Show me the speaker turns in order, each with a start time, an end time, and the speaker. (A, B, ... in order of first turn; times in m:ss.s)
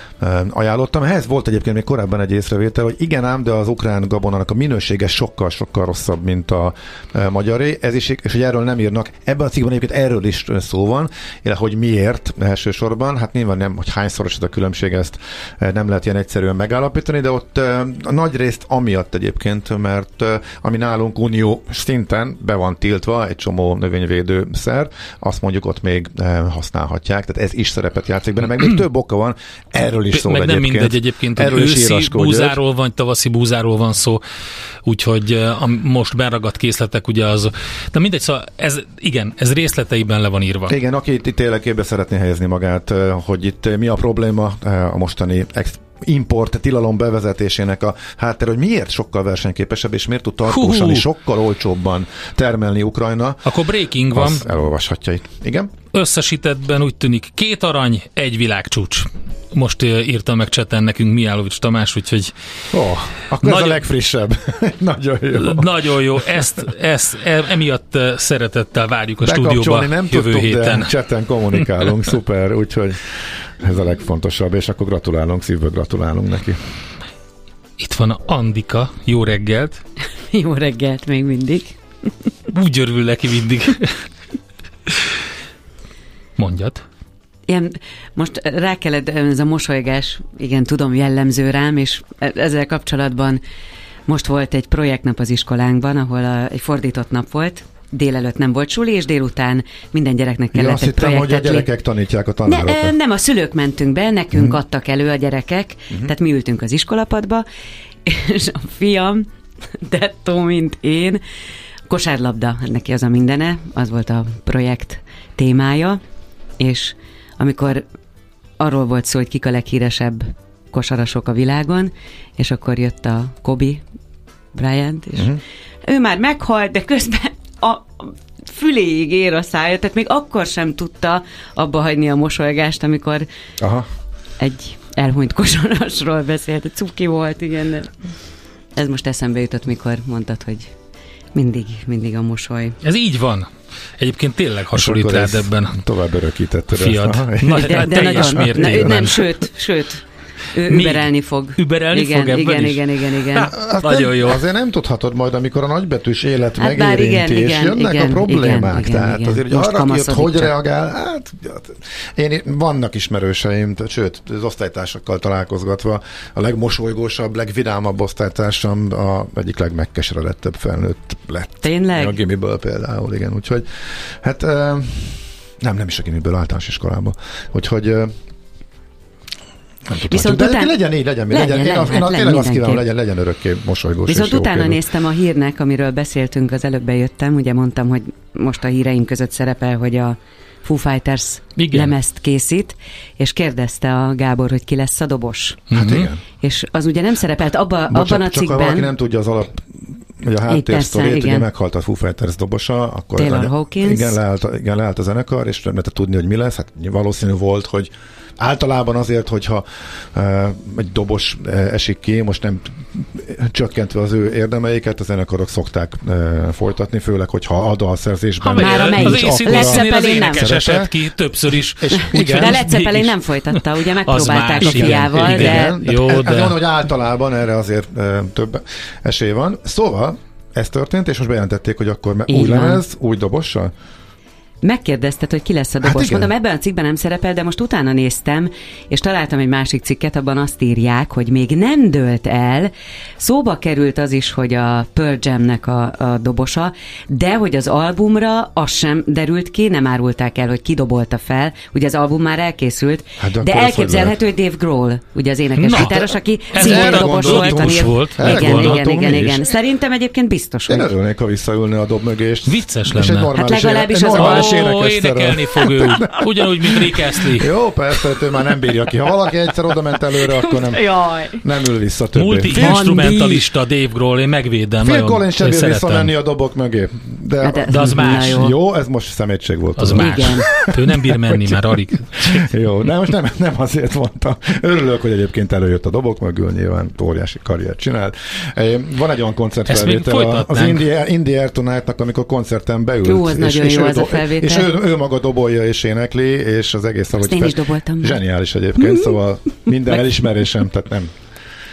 0:00.2-0:32.6 A
0:30.1-0:34.2 B
0:34.8-0:40.8 B
0:40.7-0:53.6 A
0:50.5-0:51.1 B
0:53.4-0:54.5 B
0:54.1-0:55.7 A
0:55.9-1:02.3 B
1:02.7-1:06.4 A
1:03.4-1:03.8 B
1:05.4-1:10.9 B
1:09.2-1:16.6 A
1:17.8-1:19.8 B
1:20.3-1:21.8 C
1:22.5-1:23.9 B
1:26.4-1:26.8 B
1:27.5-1:33.4 C
1:34.1-1:41.7 C
1:40.5-1:42.9 A
1:42.4-1:47.4 C
1:48.0-1:49.3 C
1:49.8-1:51.2 C
1:51.9-1:56.0 C
1:56.6-1:57.9 C
1:58.6-2:03.8 C
2:04.5-2:13.3 C
2:05.1-2:05.4 A
2:13.6-2:13.9 A
2:14.4-2:17.9 C
2:18.7-2:20.7 C
2:21.3-2:22.8 C
2:22.8-2:25.7 B
2:24.7-2:29.1 A
2:26.7-2:29.3 B
2:27.5-2:30.0 C
2:30.5-2:33.5 C
2:30.7-2:34.4 B
2:33.5-2:58.1 A
2:36.6-2:40.6 C
2:51.6-2:52.2 C
2:59.9-3:04.8 A
3:00.1-3:02.8 C
3:04.1-3:15.6 C
3:11.6-3:11.9 B
3:15.7-3:16.1 B
3:15.7-3:16.2 A
3:16.4-3:18.9 C
3:17.9-3:41.0 A
3:20.5-3:21.5 C
3:23.2-3:24.1 C
3:38.5-3:40.6 C
3:38.5-3:46.6 B
3:41.5-3:42.7 A
3:41.9-3:45.8 C
3:44.6-3:53.7 A
3:52.3-3:52.8 C
3:54.6-4:20.9 C
3:55.8-3:56.3 A
4:13.2-4:14.2 A
4:15.6-4:16.0 B
4:15.7-4:19.4 A
4:16.5-4:18.9 B
4:20.7-4:33.2 A
4:22.4-4:23.4 B
4:23.3-4:24.7 C
4:24.2-4:27.5 B
4:30.2-4:31.4 C
4:32.2-4:36.1 B
4:32.5-4:33.4 C
4:34.8-5:01.1 A
4:37.4-4:38.6 C
4:37.7-4:38.5 B
4:39.8-4:42.5 B
4:40.0-4:40.5 C
4:49.7-4:50.9 B
4:53.0-4:54.7 C
4:57.1-4:58.2 C
4:58.8-4:59.1 C